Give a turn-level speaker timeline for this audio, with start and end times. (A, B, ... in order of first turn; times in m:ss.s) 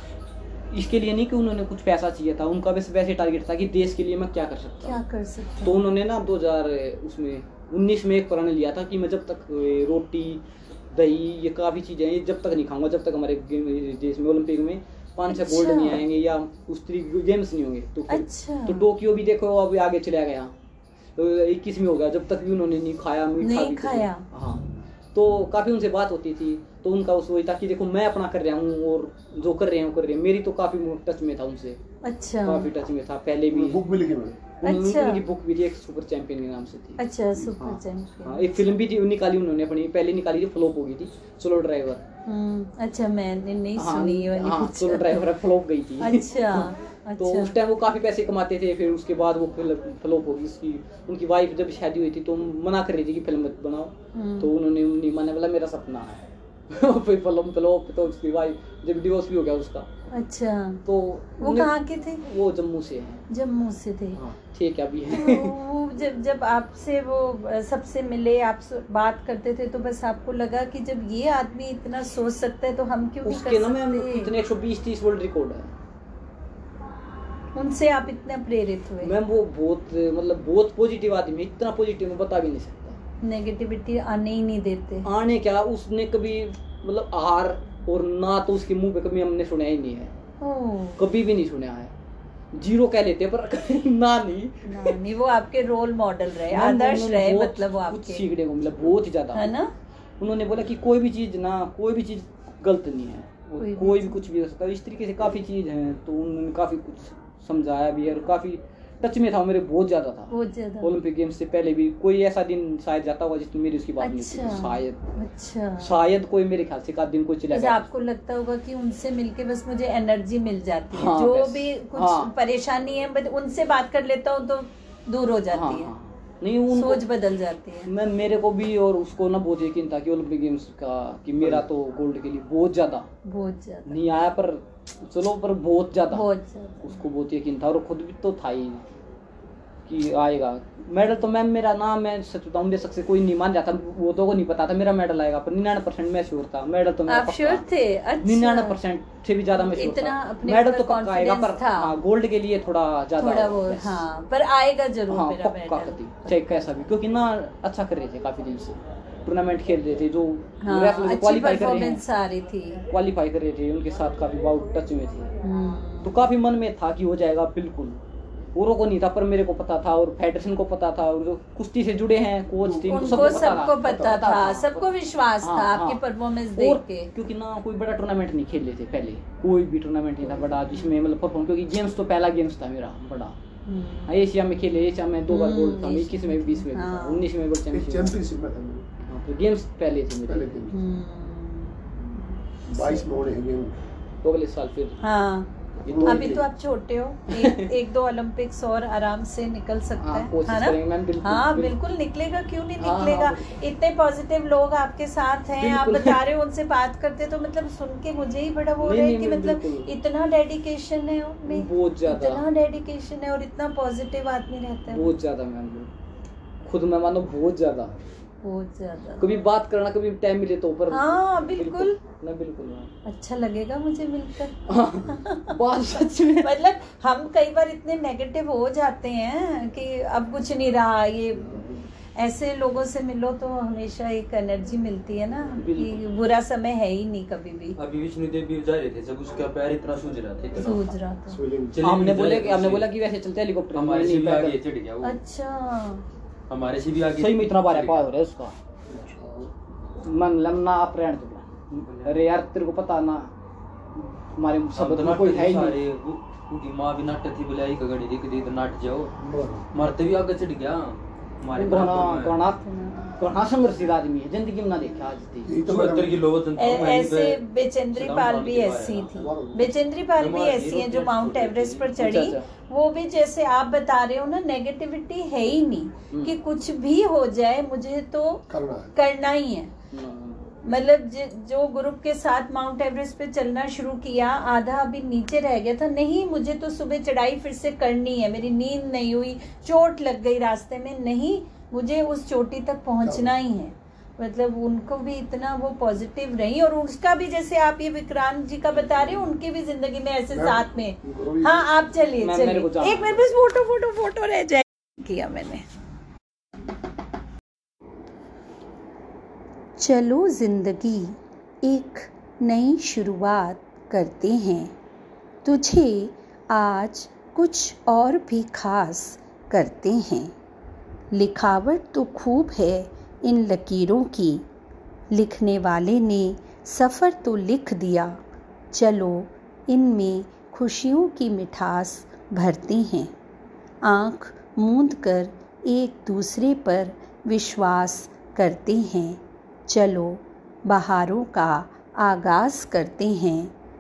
0:00.7-0:05.0 A
0:04.8-0:05.8 B
0:05.6-0:20.5 A
0:15.3-0:16.0 B
0:18.1-0:18.9 B
0:21.2-0:31.8 A
0:23.4-0:24.2 B
0:32.1-0:32.7 B
0:32.4-0:33.8 A
0:33.5-0:34.4 C
0:34.6-0:37.0 A
0:34.6-0:35.2 B
0:37.0-0:38.5 B
0:37.5-0:42.0 A
0:42.3-0:45.2 B
0:43.8-0:59.9 A
0:46.0-0:47.5 B
0:54.2-0:54.5 B
1:00.2-1:00.8 B
1:00.9-1:03.2 A
1:01.4-1:02.2 B
1:03.3-1:04.2 B
1:04.1-1:05.6 A
1:05.1-1:14.3 B
1:13.2-1:15.7 A
1:17.6-1:19.1 B
1:19.0-1:23.0 A
1:23.2-1:25.1 B
1:25.0-1:30.1 A
1:30.4-1:31.0 B
1:31.0-1:31.9 A
1:32.5-1:35.0 A
1:34.7-1:38.3 B
1:36.5-1:39.5 A
1:39.3-1:39.7 B
1:40.2-1:55.0 A
1:43.6-1:44.2 B
1:50.3-1:50.9 B
1:54.0-1:55.9 B
1:55.8-1:57.9 A
1:57.5-2:05.9 B
2:00.9-2:02.3 A
2:05.5-2:07.0 A
2:06.7-2:07.9 B
2:07.8-2:13.1 A
2:13.3-2:14.0 B
2:13.9-2:16.2 A
2:16.1-2:17.0 B
2:16.8-2:18.8 A
2:19.9-2:27.6 A
2:27.1-2:28.8 B
2:28.2-2:34.0 A
2:29.6-2:32.0 B
2:33.2-2:36.5 B
2:35.1-2:42.0 A
2:40.6-2:42.8 B
2:42.9-2:45.3 A
2:45.4-2:46.2 B
2:46.0-2:48.0 A
2:48.5-2:54.9 A
2:52.6-2:54.1 C
2:52.9-2:57.1 B
2:55.4-2:56.0 A
2:56.5-3:03.4 A
3:03.7-3:04.2 B
3:04.1-3:08.2 A
3:05.3-3:07.2 B
3:07.7-3:08.8 C
3:09.1-3:10.7 A
3:10.3-3:10.7 C
3:10.7-3:13.1 B
3:12.7-3:13.8 C
3:14.2-3:15.0 A
3:15.0-3:15.5 B
3:15.8-3:16.4 A
3:15.9-3:16.4 C
3:16.0-3:35.1 B
3:17.3-3:17.7 A
3:20.0-3:21.7 A
3:22.8-3:23.6 A
3:25.6-3:26.2 A
3:28.8-3:29.9 A
3:31.5-3:32.4 A
3:34.9-3:35.9 A
3:36.6-3:37.9 A
3:38.4-3:39.3 B
3:39.2-3:42.9 A
3:40.9-3:42.0 B
3:43.1-3:45.6 B
3:44.7-3:46.5 A
3:46.4-3:57.8 B
3:55.6-3:56.0 A
3:57.8-4:01.0 D
4:00.6-4:01.4 B
4:00.7-4:01.1 E
4:01.3-4:01.9 C
4:01.7-4:02.9 D
4:01.8-4:04.6 A
4:03.7-4:05.2 D
4:05.2-4:05.7 E
4:05.7-4:06.0 B
4:06.5-4:08.0 D
4:07.2-4:08.6 A
4:10.0-4:13.3 A
4:11.8-4:12.1 D
4:14.0-4:15.8 A
4:14.8-4:19.1 D
4:19.2-4:19.7 C
4:19.7-4:22.4 D
4:21.6-4:22.6 A
4:23.2-4:25.5 A
4:25.5-4:26.2 C
4:25.6-4:27.4 D
4:26.6-4:38.4 B
4:27.9-4:29.1 D
4:29.1-4:29.7 C
4:30.2-4:32.1 D
4:32.0-4:32.5 A
4:36.1-4:36.4 A
4:38.5-4:38.9 C
4:39.0-4:39.7 B
4:39.9-4:40.5 A
4:40.6-5:05.6 B
4:53.0-4:53.3 C
4:58.7-4:59.1 A
5:00.3-5:01.8 C
5:02.2-5:03.2 A
5:09.8-5:14.7 E
5:15.4-5:20.3 E
5:21.1-5:24.4 E
5:25.1-5:28.2 E
5:28.7-5:33.1 E
5:33.8-5:43.5 E